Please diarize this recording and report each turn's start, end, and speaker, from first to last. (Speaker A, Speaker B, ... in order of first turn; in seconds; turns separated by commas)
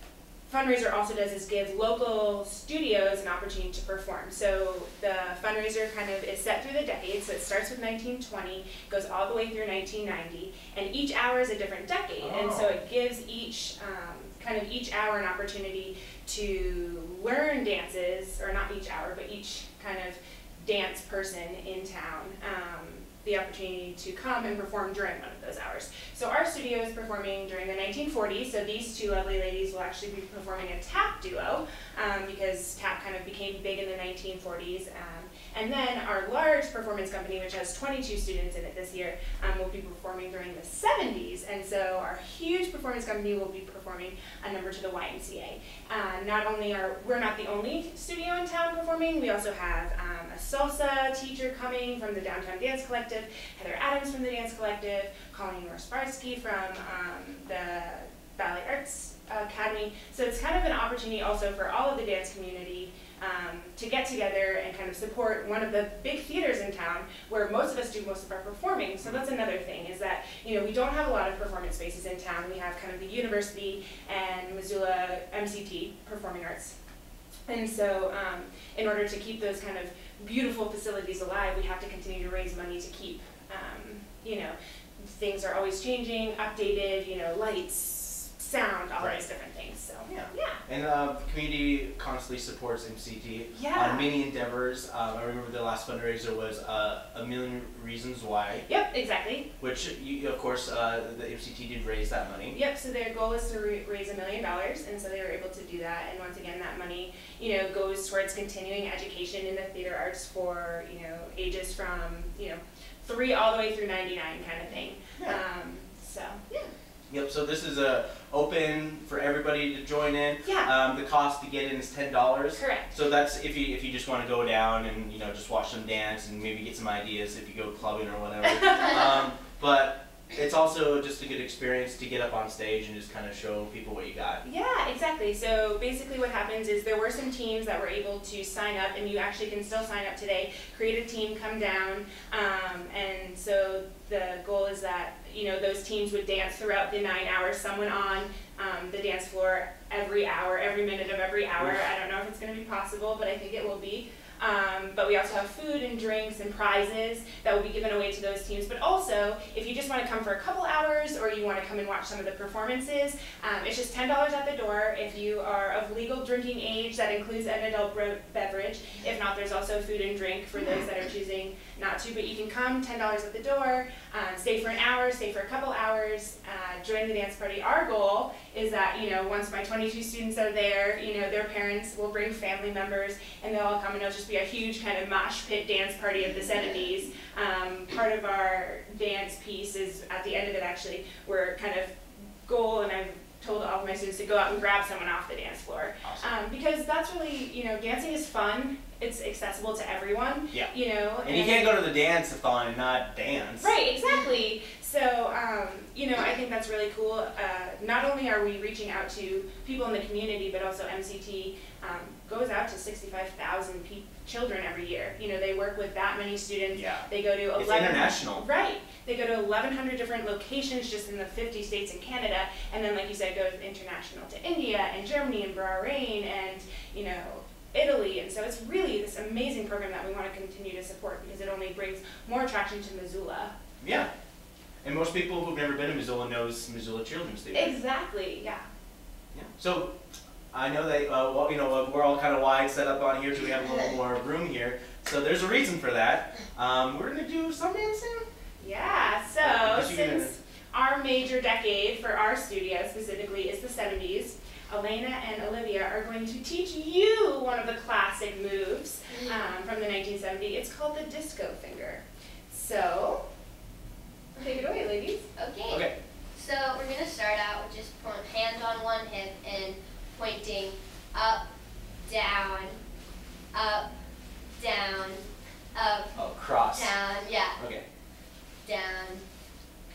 Speaker A: 0.5-76.7, Speaker B: 12.2-12.8, Speaker A: 77.5-90.6, Speaker B: 89.0-89.2, Speaker B: 90.1-98.7, Speaker A: 93.5-94.1, Speaker A: 98.7-99.5, Speaker B: 99.6-102.6, Speaker A: 102.5-116.7, Speaker B: 117.1-134.4, Speaker A: 120.4-120.7, Speaker A: 122.5-122.9, Speaker A: 128.4-129.0, Speaker A: 134.4-201.8, Speaker B: 200.5-203.7, Speaker A: 203.6-233.5, Speaker B: 216.7-218.4, Speaker B: 233.8-234.1, Speaker B: 234.8-237.8, Speaker A: 237.5-238.7, Speaker B: 239.3-239.9, Speaker B: 240.5-248.2, Speaker A: 248.6-263.2, Speaker B: 249.4-250.3, Speaker C: 259.1-259.4, Speaker A: 264.4-265.2, Speaker C: 265.4-271.4, Speaker B: 265.7-266.0, Speaker C: 272.0-272.8, Speaker C: 273.5-273.9, Speaker C: 274.6-275.2, Speaker C: 275.7-276.1, Speaker B: 276.1-276.9, Speaker C: 276.7-277.6, Speaker B: 277.6-277.9, Speaker C: 278.6-279.2